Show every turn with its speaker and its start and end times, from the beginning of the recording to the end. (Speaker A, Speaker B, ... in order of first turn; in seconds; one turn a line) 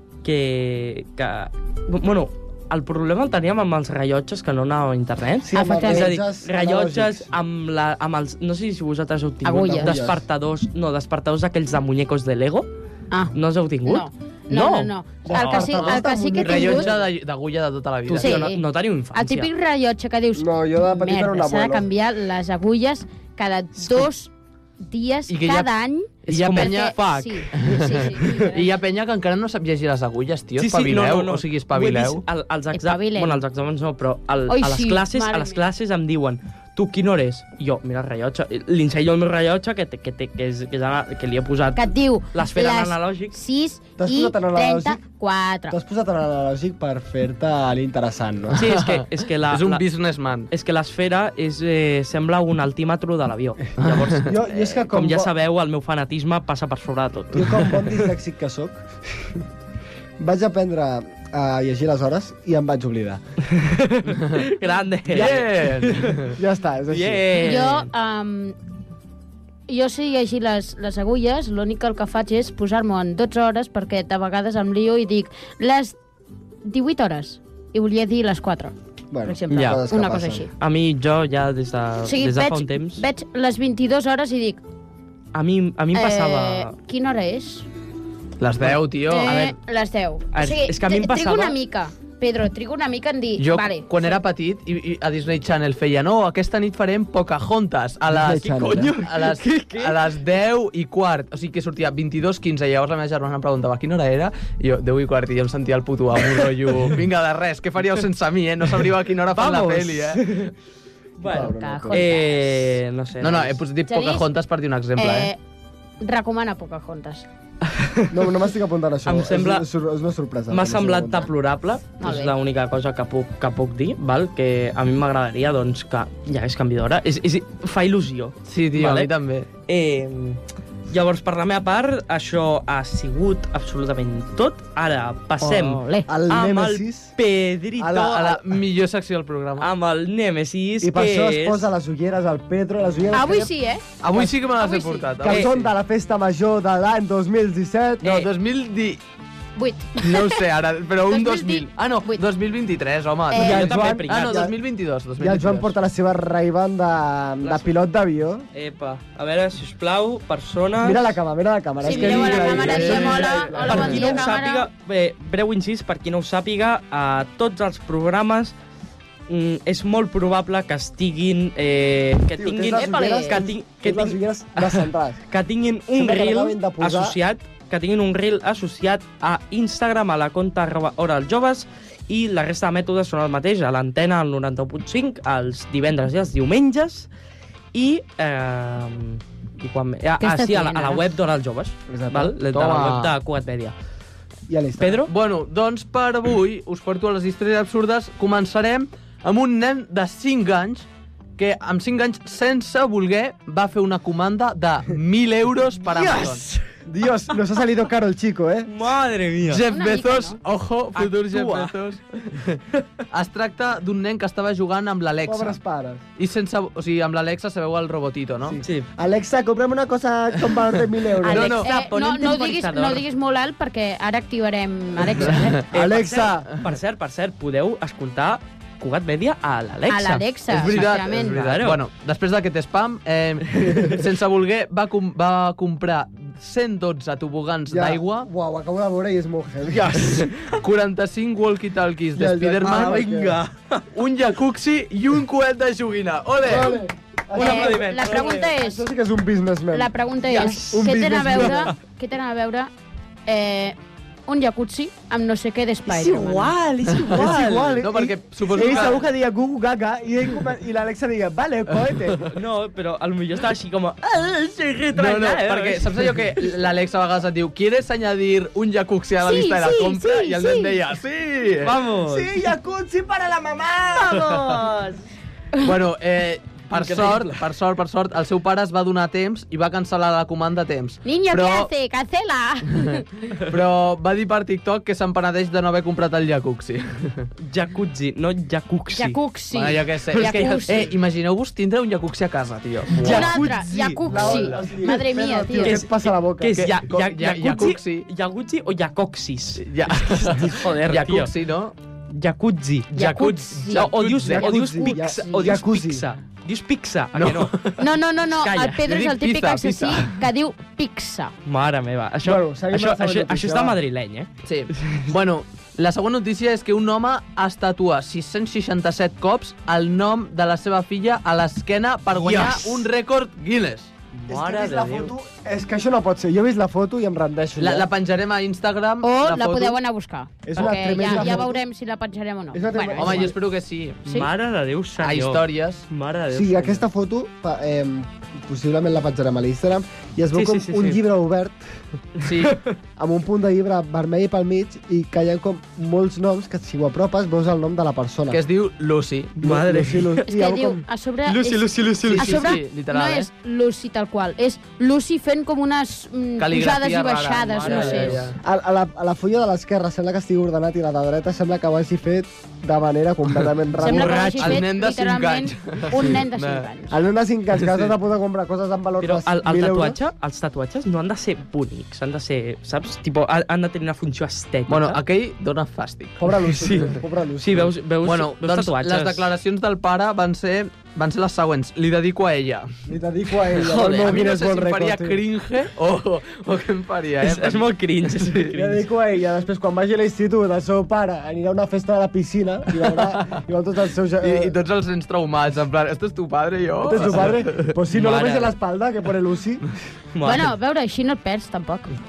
Speaker A: 0.2-12.7
Speaker B: 5.4-7.3
Speaker C: 5.5-6.1
Speaker C: 9.4-10.1
Speaker B: 9.6-10.2
Speaker C: 13.1-16.9
Speaker A: 13.3-15.9
Speaker B: 15.2-17.1
Speaker D: 16.4-18.4
Speaker A: 18.1-19.5
Speaker C: 18.1-24.3
Speaker B: 20.3-21.9
Speaker C: 24.8-28.6
Speaker D: 25.3-25.7
Speaker D: 26.3-27.0
Speaker A: 26.3-27.6
Speaker D: 27.5-32.2
Speaker A: 30.6-43.4
Speaker C: 32.7-33.4
Speaker C: 34.5-35.7
Speaker C: 41.7-45.8
Speaker B: 44.0-45.0
Speaker B: 45.7-48.6
Speaker A: 48.5-49.8
Speaker D: 48.6-50.5
Speaker A: 50.5-57.9
Speaker D: 53.8-54.2
Speaker B: 54.2-55.3
Speaker B: 57.3-59.4
Speaker B: 60.2-63.2
Speaker A: 63.5-66.3
Speaker D: 64.2-64.4
Speaker D: 65.1-66.4
Speaker B: 66.3-67.3
Speaker A: 66.9-67.9
Speaker C: 67.3-68.5
Speaker C: 69.7-76.0
Speaker C: 76.6-78.7
Speaker B: 79.1-80.5
Speaker C: 79.2-80.5
Speaker A: 79.5-79.8
Speaker A: 80.6-83.0
Speaker C: 82.0-84.6
Speaker A: 85.3-86.7
Speaker C: 85.9-87.7
Speaker D: 88.4-89.5
Speaker A: 88.6-89.5
Speaker C: 89.0-94.2
Speaker A: 90.3-91.6
Speaker D: 93.4-110.5
Speaker B: 98.1-98.9
Speaker A: 98.6-100.0
Speaker A: 109.3-110.5
Speaker A: 111.2-113.6
Speaker B: 111.2-112.1
Speaker C: 111.3-112.7
Speaker D: 113.2-115.3
Speaker C: 113.9-114.2
Speaker C: 115.0-115.4
Speaker C: 116.0-117.3
Speaker A: 117.6-118.3
Speaker B: 118.1-121.3
Speaker A: 119.0-119.7
Speaker A: 120.5-129.1
Speaker C: 122.0-122.3
Speaker D: 128.4-129.5
Speaker A: 129.7-130.4
Speaker A: 130.9-138.3
Speaker C: 135.4-136.1
Speaker B: 136.1-137.1
Speaker B: 137.8-138.4
Speaker D: 137.9-139.7
Speaker A: 139.6-141.7
Speaker B: 140.8-143.5
Speaker C: 143.1-143.8
Speaker D: 144.0-145.7
Speaker C: 144.6-145.1
Speaker B: 145.2-148.2
Speaker D: 148.0-149.0
Speaker C: 149.6-150.4
Speaker D: 150.0-155.7
Speaker C: 151.1-152.2
Speaker C: 153.3-153.7
Speaker B: 153.3-154.6
Speaker A: 153.4-154.3
Speaker B: 155.2-158.4
Speaker A: 158.5-161.1
Speaker B: 160.8-164.2
Speaker C: 161.8-164.7
Speaker A: 161.8-168.5
Speaker D: 162.3-163.3
Speaker A: 169.3-187.1
Speaker B: 172.3-175.2
Speaker C: 172.7-173.4
Speaker B: 175.9-177.2
Speaker A: 187.7-193.7
Speaker C: 190.2-191.0
Speaker B: 191.9-192.3
Speaker D: 192.5-193.1
Speaker B: 194.5-195.1
Speaker A: 194.8-195.1
Speaker D: 195.1-200.8
Speaker D: 201.4-206.4
Speaker A: 205.8-206.7
Speaker B: 206.8-208.7
Speaker A: 208.7-209.6
Speaker D: 209.5-212.6
Speaker C: 209.7-210.4
Speaker A: 210.9-211.7
Speaker D: 213.1-215.6
Speaker B: 215.2-216.0
Speaker D: 216.2-218.6
Speaker B: 218.4-221.6
Speaker A: 218.6-218.9
Speaker D: 220.4-221.7
Speaker C: 221.3-225.6
Speaker A: 221.3-223.0
Speaker D: 225.2-225.5
Speaker B: 225.7-226.5
Speaker A: 225.7-231.8
Speaker C: 229.9-231.4
Speaker D: 230.5-238.3
Speaker B: 233.7-234.0
Speaker B: 237.7-240.1
Speaker A: 239.7-240.6
Speaker D: 240.0-243.0
Speaker B: 242.1-243.4
Speaker A: 242.6-243.9
Speaker D: 243.9-246.8
Speaker B: 246.4-251.7
Speaker A: 247.3-248.5
Speaker C: 247.3-248.8
Speaker C: 249.7-252.7
Speaker A: 250.3-251.7
Speaker C: 253.2-253.8
Speaker C: 254.3-256.5
Speaker A: 255.9-257.8
Speaker B: 256.9-262.2
Speaker D: 257.1-259.0
Speaker A: 258.6-258.9
Speaker A: 262.2-266.1
Speaker D: 264.9-271.8
Speaker C: 269.2-270.7
Speaker A: 271.6-272.3
Speaker B: 272.1-274.6
Speaker A: 274.0-275.0
Speaker D: 275.6-281.7
Speaker A: 276.7-277.4
Speaker C: 281.0-283.0
Speaker D: 282.9-287.3
Speaker A: 287.4-289.2
Speaker C: 288.9-290.9
Speaker D: 289.5-293.5
Speaker A: 290.1-290.5
Speaker A: 292.9-294.1
Speaker C: 293.0-295.8
Speaker B: 294.0-296.7
Speaker D: 294.1-294.6
Speaker A: 295.6-301.3
Speaker D: 296.6-298.1
Speaker D: 299.6-301.7
Speaker A: 302.1-307.6
Speaker C: 302.9-303.9
Speaker D: 302.9-304.5
Speaker B: 304.3-306.0
Speaker C: 304.8-305.5
Speaker D: 307.1-307.8
Speaker C: 307.8-311.3
Speaker A: 308.3-308.8
Speaker D: 308.8-310.1
Speaker A: 311.4-315.1
Speaker B: 312.2-313.8
Speaker D: 314.4-323.9
Speaker A: 322.1-322.8
Speaker A: 324.1-325.1
Speaker B: 324.3-327.9
Speaker D: 327.6-329.8
Speaker C: 329.0-333.3
Speaker B: 330.4-331.6
Speaker A: 330.6-331.4
Speaker B: 332.5-333.3
Speaker D: 333.0-334.0
Speaker A: 334.1-336.8
Speaker D: 335.0-335.9
Speaker B: 336.3-341.6
Speaker A: 340.3-341.0
Speaker A: 342.2-342.7
Speaker D: 342.2-342.6
Speaker B: 343.0-348.4
Speaker D: 348.3-349.3
Speaker A: 349.4-350.6
Speaker B: 349.4-350.8
Speaker C: 350.3-358.2
Speaker A: 351.2-352.5
Speaker D: 352.1-353.3
Speaker D: 356.4-358.4
Speaker A: 357.6-358.3
Speaker B: 358.4-364.2
Speaker C: 363.8-367.0
Speaker A: 363.8-364.6
Speaker D: 364.4-366.7
Speaker B: 366.9-370.0
Speaker A: 369.0-375.0
Speaker D: 374.7-376.2
Speaker B: 376.2-377.7
Speaker A: 376.5-379.3
Speaker D: 378.0-382.7
Speaker B: 382.9-385.2
Speaker D: 383.5-388.5
Speaker A: 383.6-384.1
Speaker A: 387.2-388.8
Speaker B: 388.5-394.5
Speaker D: 393.1-393.4
Speaker D: 394.2-397.7
Speaker B: 396.8-399.7
Speaker A: 397.9-398.5
Speaker A: 400.1-400.5
Speaker C: 400.2-401.9